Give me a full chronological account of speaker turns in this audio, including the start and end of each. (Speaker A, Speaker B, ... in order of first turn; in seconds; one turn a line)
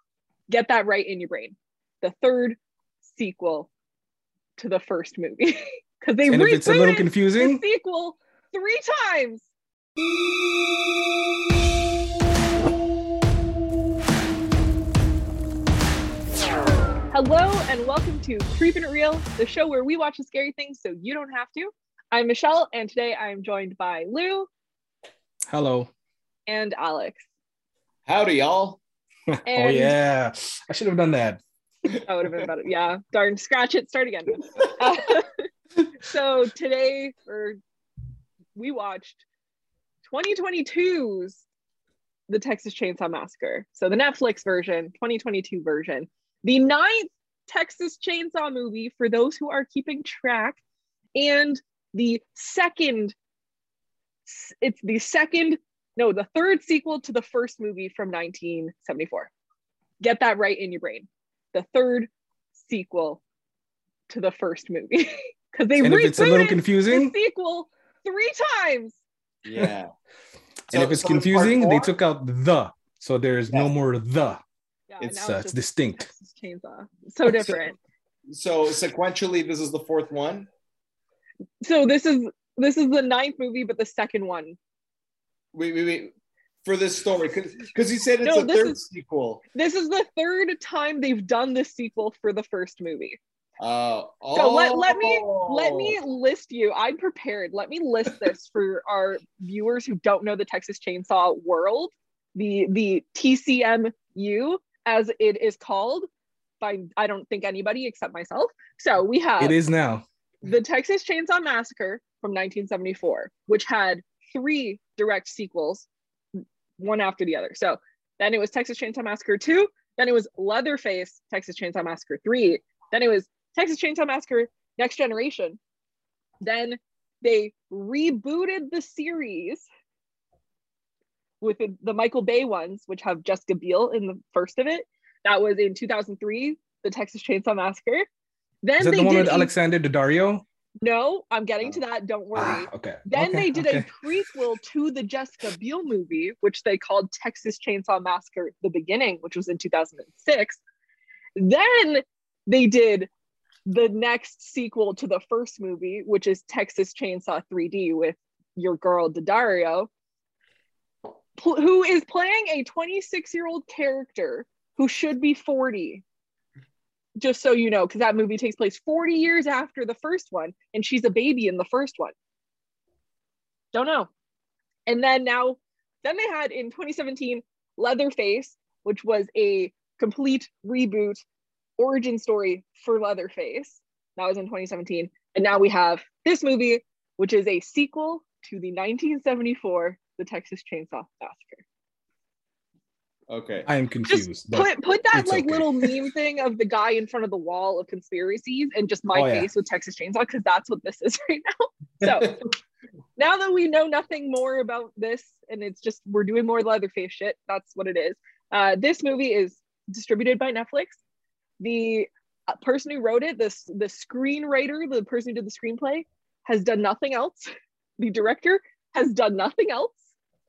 Speaker A: 0.5-3.7
Speaker A: 4.6-9.5
Speaker B: 6.3-7.6
Speaker A: 17.1-24.5
Speaker B: 25.5-25.9
Speaker A: 26.5-27.2
Speaker C: 28.1-28.8
Speaker B: 29.3-31.4
Speaker A: 29.5-30.0
Speaker A: 32.1-35.5
Speaker A: 36.0-37.6
Speaker A: 38.6-39.2
Speaker A: 40.1-41.4
Speaker A: 42.3-50.6
Speaker A: 51.1-53.1
Speaker A: 54.3-59.3
Speaker A: 60.0-63.2
Speaker A: 64.1-69.0
Speaker B: 65.8-67.2
Speaker C: 69.5-69.9
Speaker B: 70.7-74.4
Speaker C: 70.7-71.9
Speaker A: 74.9-77.8
Speaker B: 75.0-76.1
Speaker C: 78.3-80.5
Speaker A: 81.6-84.6
Speaker C: 85.5-86.1
Speaker C: 86.7-89.4
Speaker A: 88.2-88.8
Speaker A: 89.5-93.2
Speaker C: 93.6-96.0
Speaker A: 94.3-106.1
Speaker A: 106.6-109.6
Speaker B: 109.4-110.1
Speaker A: 110.4-115.9
Speaker A: 116.8-125.6
Speaker A: 126.4-129.7
Speaker A: 131.4-138.1
Speaker A: 138.6-139.5
Speaker B: 138.8-140.4
Speaker A: 140.8-150.6
Speaker B: 142.3-143.9
Speaker A: 151.4-153.1
Speaker A: 153.7-159.9
Speaker A: 161.4-166.0
Speaker A: 167.2-172.1
Speaker A: 173.7-174.1
Speaker A: 174.9-181.2
Speaker A: 181.8-191.6
Speaker C: 193.3-193.7
Speaker B: 193.7-196.0
Speaker A: 194.1-202.4
Speaker B: 199.1-199.5
Speaker C: 202.0-202.3
Speaker A: 203.2-211.0
Speaker A: 211.6-220.0